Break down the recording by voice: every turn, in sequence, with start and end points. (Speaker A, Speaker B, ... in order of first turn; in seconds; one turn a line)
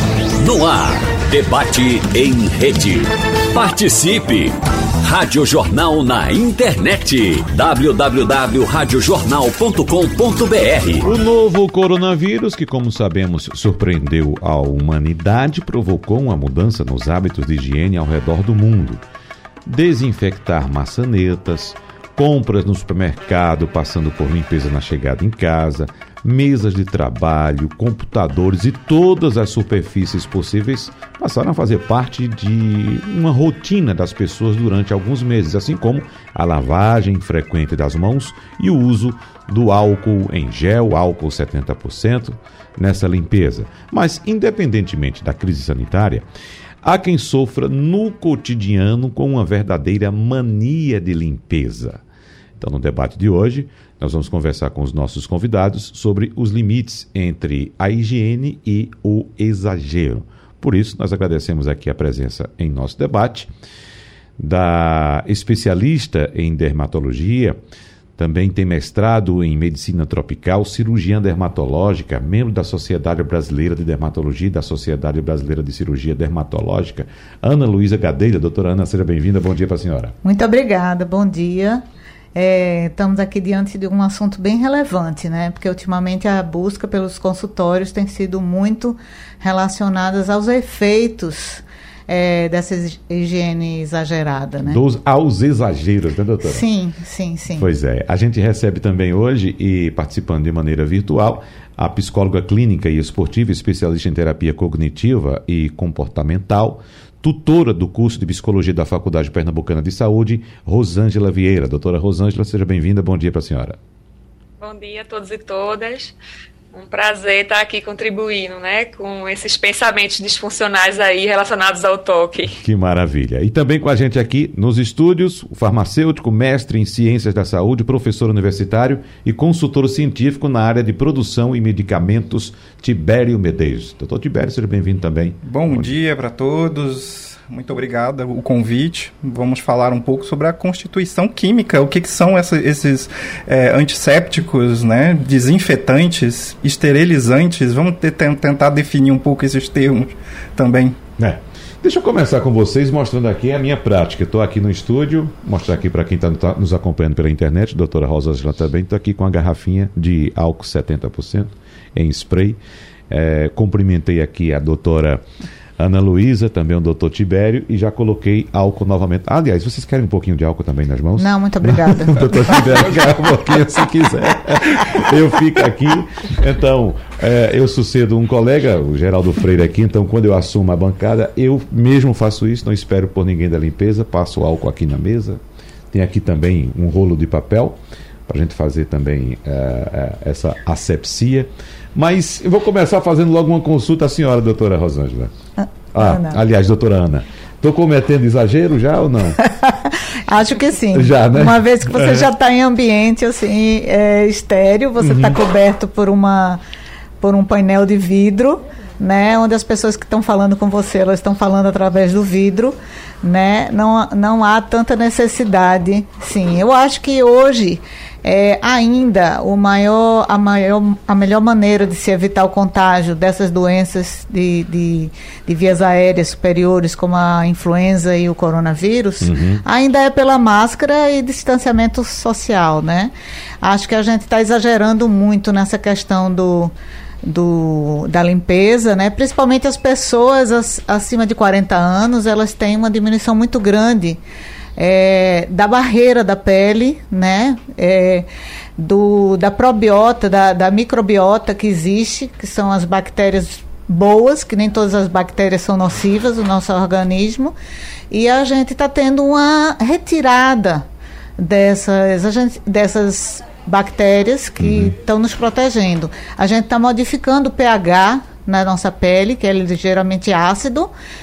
Speaker A: 0.4-11.1
Speaker B: 11.0-19.0
Speaker B: 19.6-46.2
Speaker B: 46.8-52.0
Speaker B: 52.6-63.5
Speaker B: 64.4-67.6
Speaker B: 68.2-80.1
Speaker C: 80.2-81.8
Speaker C: 82.3-94.8
Speaker B: 94.6-96.6
Speaker C: 96.4-97.7
Speaker B: 97.5-113.8
Speaker D: 114.6-116.1
Speaker D: 116.7-122.6
Speaker B: 122.6-135.9
Speaker E: 135.4-150.9
Speaker B: 151.2-165.2
Speaker B: 165.8-195.3
Speaker C: 171.2-172.6
Speaker C: 195.6-196.4
Speaker B: 195.9-199.4
Speaker C: 199.4-206.6
Speaker B: 200.9-202.3
Speaker B: 205.0-205.4
Speaker C: 207.2-236.7
Speaker B: 229.2-229.6
Speaker C: 237.2-244.2
Speaker C: 244.8-257.5
Speaker C: 258.1-260.8
Speaker C: 261.4-270.9
Speaker B: 264.6-264.9